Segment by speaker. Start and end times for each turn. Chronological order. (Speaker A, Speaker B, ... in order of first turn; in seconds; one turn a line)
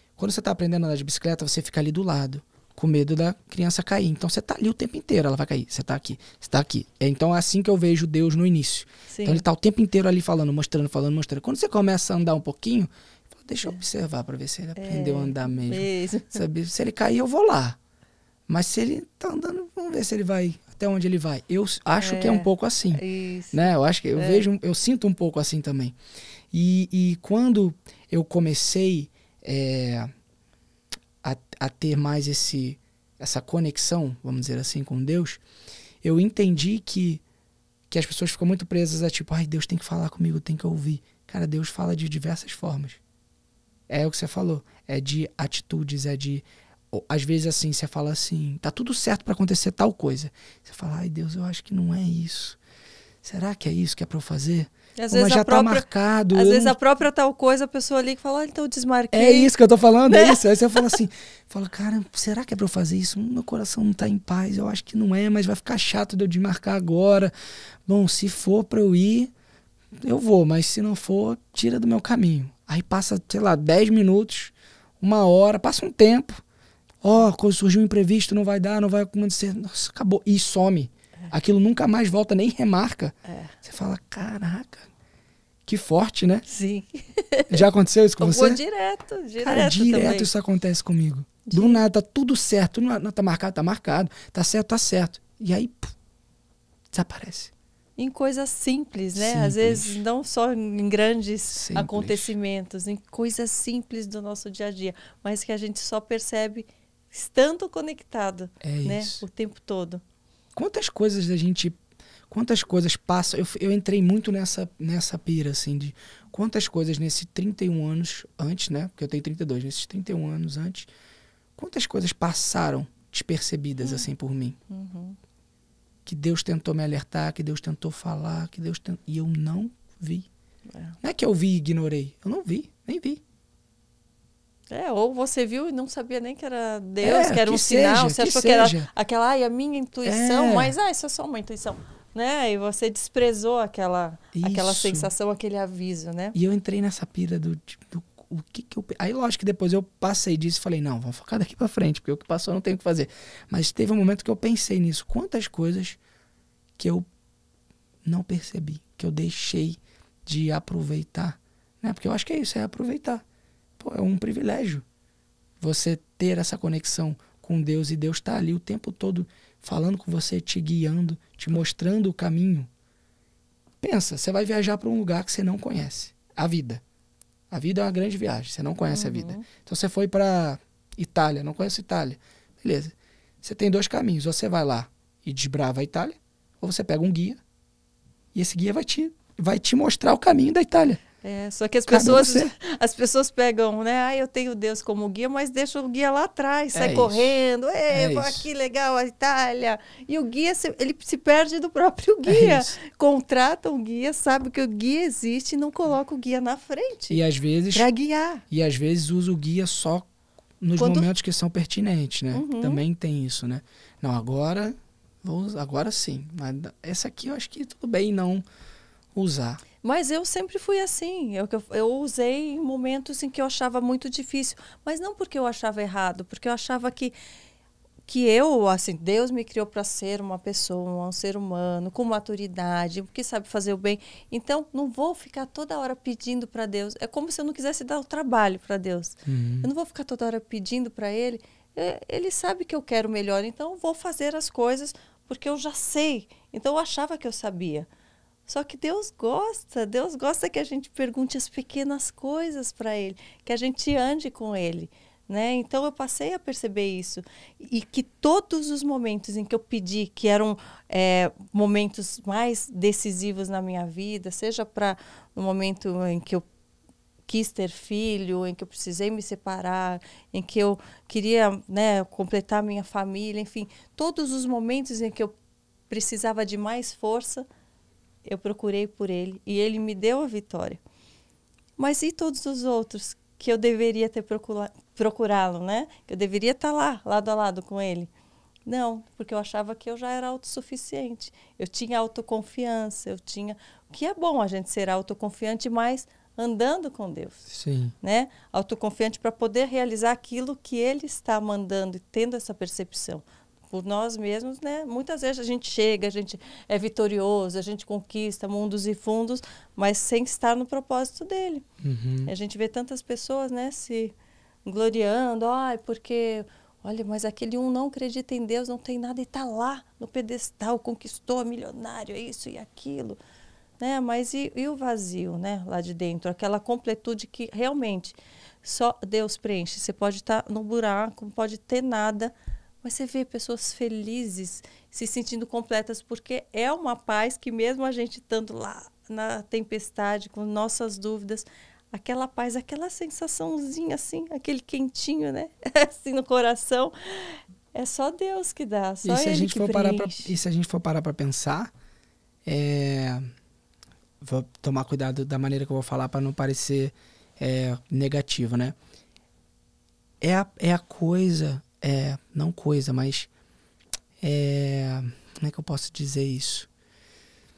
Speaker A: 0.2-17.8
Speaker B: 9.1-9.4
Speaker B: 14.8-16.4
Speaker A: 18.5-26.0
Speaker B: 22.0-24.5
Speaker A: 26.5-30.1
Speaker A: 31.2-35.4
Speaker A: 36.0-37.2
Speaker A: 37.9-43.0
Speaker A: 43.9-52.6
Speaker A: 53.2-56.8
Speaker B: 55.0-59.5
Speaker A: 59.1-67.3
Speaker B: 60.0-61.0
Speaker A: 67.9-69.3
Speaker A: 70.0-76.4
Speaker A: 77.0-84.9
Speaker B: 83.3-83.5
Speaker A: 85.7-86.5
Speaker B: 86.5-87.7
Speaker A: 87.5-88.6
Speaker B: 88.2-90.3
Speaker A: 89.4-96.0
Speaker B: 91.5-91.8
Speaker A: 96.9-97.5
Speaker B: 98.0-110.0
Speaker A: 99.2-100.0
Speaker A: 101.5-102.3
Speaker A: 108.6-109.2
Speaker A: 110.5-111.8
Speaker A: 112.3-120.9
Speaker A: 121.6-124.6
Speaker B: 124.7-125.2
Speaker A: 126.1-130.3
Speaker A: 131.0-133.2
Speaker B: 134.7-146.4
Speaker A: 137.0-138.9
Speaker A: 140.1-140.8
Speaker A: 144.3-145.1
Speaker A: 146.3-156.0
Speaker A: 156.8-157.1
Speaker A: 158.1-163.2
Speaker A: 163.8-164.8
Speaker A: 165.6-172.7
Speaker A: 173.8-176.8
Speaker A: 177.5-187.4
Speaker B: 178.9-179.5
Speaker A: 188.3-191.0
Speaker B: 191.2-208.4
Speaker A: 191.9-192.5
Speaker A: 196.7-197.4
Speaker A: 197.9-198.5
Speaker A: 202.3-202.8
Speaker A: 207.1-207.9
Speaker A: 208.5-210.1
Speaker A: 210.6-218.4
Speaker B: 210.8-211.1
Speaker B: 212.3-212.8
Speaker A: 219.2-219.6
Speaker B: 219.8-227.2
Speaker B: 228.1-247.9
Speaker A: 239.3-239.7
Speaker B: 248.5-266.5
Speaker B: 267.3-275.3
Speaker B: 275.9-277.5
Speaker B: 278.2-280.8
Speaker B: 281.8-288.1
Speaker B: 288.7-297.4
Speaker A: 297.5-297.9
Speaker B: 298.0-311.6
Speaker A: 311.8-312.3
Speaker B: 312.2-314.1
Speaker B: 314.6-323.2
Speaker B: 323.8-350.4
Speaker A: 349.0-351.7
Speaker A: 352.5-353.2
Speaker A: 354.2-358.8
Speaker A: 360.2-363.3
Speaker A: 364.2-366.7